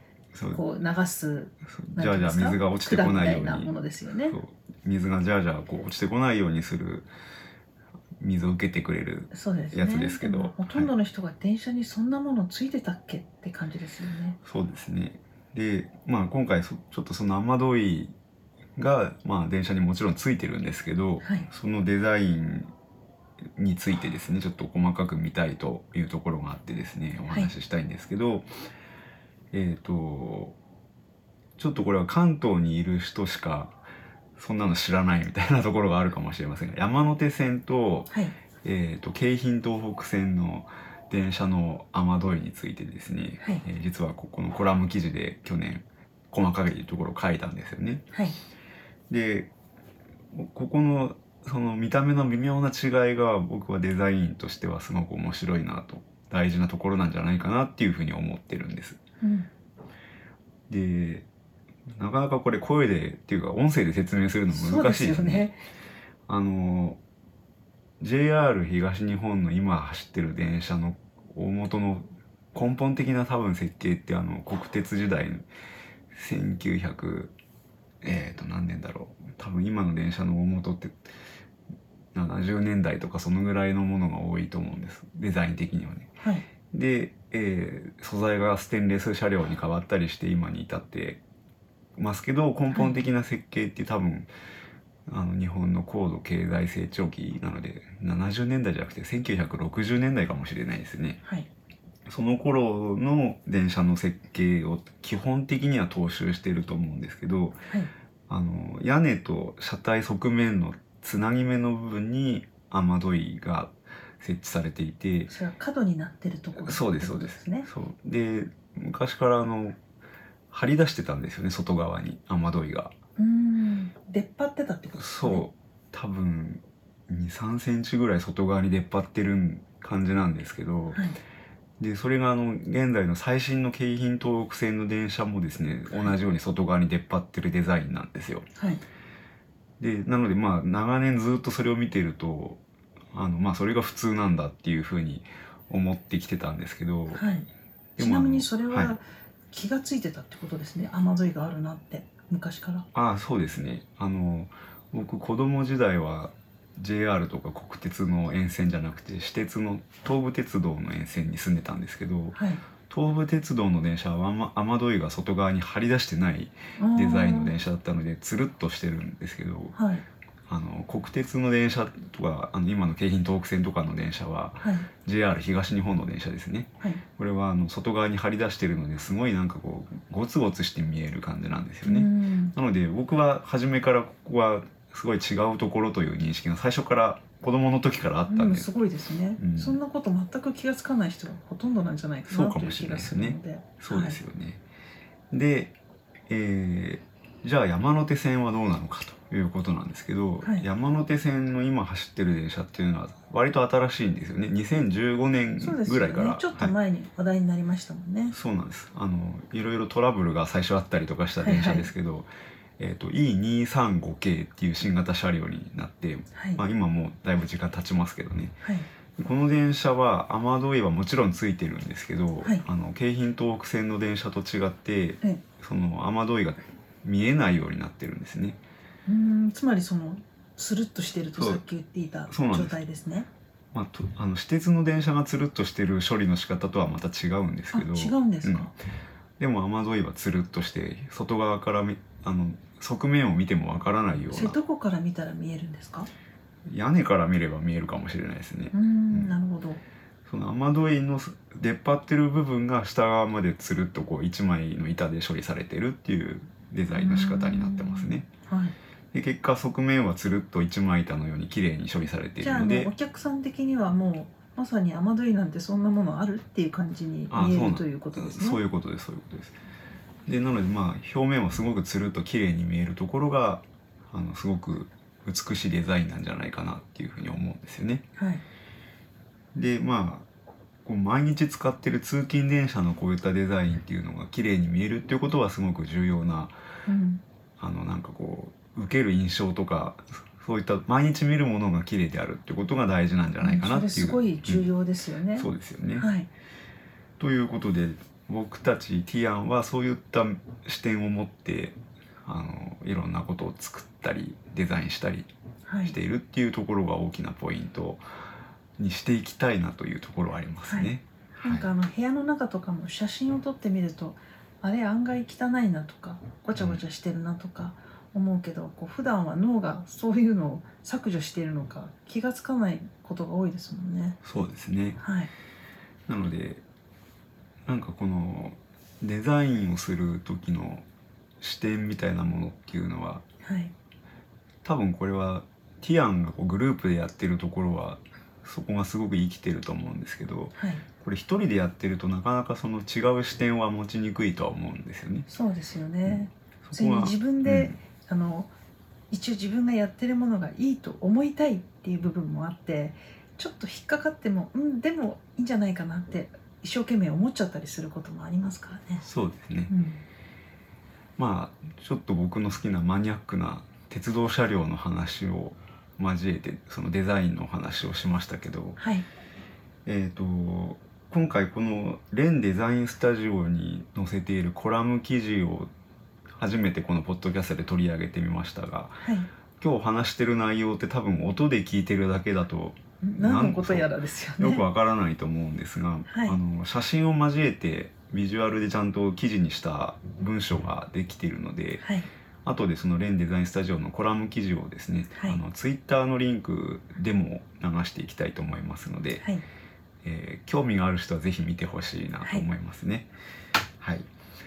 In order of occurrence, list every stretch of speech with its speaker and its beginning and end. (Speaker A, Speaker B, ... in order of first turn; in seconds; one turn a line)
Speaker A: 0.3-0.6
Speaker B: 0.5-4.4
Speaker A: 1.8-3.7
Speaker A: 4.3-7.1
Speaker A: 8.2-10.9
Speaker B: 9.3-14.4
Speaker A: 14.4-18.1
Speaker A: 18.8-22.7
Speaker B: 21.2-21.5
Speaker A: 23.6-28.5
Speaker A: 29.5-30.6
Speaker A: 31.6-33.8
Speaker A: 34.4-38.1
Speaker B: 38.1-38.4
Speaker A: 38.6-48.1
Speaker B: 48.1-48.4
Speaker A: 49.1-49.5
Speaker A: 50.3-59.0
Speaker B: 59.2-59.5
Speaker A: 60.7-61.3
Speaker A: 62.0-65.5
Speaker B: 64.5-65.6
Speaker A: 66.3-67.0
Speaker A: 68.0-75.5
Speaker A: 76.1-77.3
Speaker A: 78.0-81.0
Speaker A: 82.1-86.1
Speaker B: 86.2-86.5
Speaker A: 86.7-91.2
Speaker A: 92.0-94.3
Speaker B: 92.7-93.0
Speaker A: 95.1-101.2
Speaker A: 102.1-107.6
Speaker A: 108.3-115.3
Speaker B: 115.3-117.7
Speaker A: 116.6-119.8
Speaker A: 120.5-122.9
Speaker B: 123.2-125.5
Speaker A: 125.0-131.0
Speaker B: 130.9-131.2
Speaker A: 131.8-138.5
Speaker B: 138.6-138.8
Speaker A: 139.8-142.6
Speaker A: 143.1-147.2
Speaker B: 147.1-152.9
Speaker A: 148.0-149.0
Speaker A: 152.9-162.4
Speaker B: 162.3-162.6
Speaker A: 162.9-169.8
Speaker B: 166.8-167.6
Speaker B: 169.7-170.1
Speaker A: 170.5-188.7
Speaker B: 174.6-174.9
Speaker B: 181.8-182.6
Speaker B: 188.3-194.2
Speaker A: 189.4-189.8
Speaker A: 192.3-194.6
Speaker A: 195.3-195.8
Speaker A: 196.3-206.8
Speaker B: 205.6-208.3
Speaker A: 208.3-218.6
Speaker B: 211.4-211.9
Speaker B: 216.3-216.6
Speaker B: 218.6-218.9
Speaker A: 219.2-228.6
Speaker B: 229.1-233.3
Speaker A: 231.3-231.6
Speaker A: 232.3-232.8
Speaker A: 233.7-238.7
Speaker B: 237.7-238.7
Speaker A: 239.4-244.6
Speaker B: 244.3-246.1
Speaker A: 246.7-249.3
Speaker B: 248.7-249.8
Speaker A: 250.3-258.3
Speaker B: 256.9-258.8
Speaker A: 259.1-262.9
Speaker B: 262.4-268.6
Speaker A: 267.3-269.6
Speaker A: 270.3-278.0
Speaker B: 278.2-278.4
Speaker A: 279.6-280.3
Speaker A: 280.9-286.5
Speaker B: 286.9-287.2
Speaker A: 287.6-294.7
Speaker B: 293.4-296.3
Speaker A: 295.4-296.1
Speaker A: 297.2-305.3
Speaker B: 305.7-306.0
Speaker A: 305.8-308.0
Speaker A: 308.8-311.7
Speaker B: 310.7-310.9
Speaker B: 311.4-324.2
Speaker A: 316.6-316.8
Speaker A: 324.2-325.0
Speaker B: 325.0-325.3
Speaker A: 326.1-326.6
Speaker A: 327.7-330.9
Speaker A: 331.4-333.2
Speaker B: 333.4-333.7
Speaker A: 334.6-345.3
Speaker B: 340.5-340.8
Speaker B: 345.3-348.5
Speaker A: 346.1-347.8
Speaker B: 349.1-359.1
Speaker A: 359.0-359.7
Speaker B: 359.7-360.0
Speaker A: 361.2-368.8
Speaker B: 368.8-369.1
Speaker A: 369.9-375.7
Speaker A: 376.4-379.0
Speaker B: 379.0-379.3
Speaker A: 379.6-391.8
Speaker B: 383.0-384.6
Speaker B: 386.1-386.4
Speaker B: 391.8-392.1
Speaker A: 392.4-399.2
Speaker B: 395.1-395.4
Speaker A: 400.0-403.1
Speaker B: 402.2-402.5
Speaker A: 403.8-404.1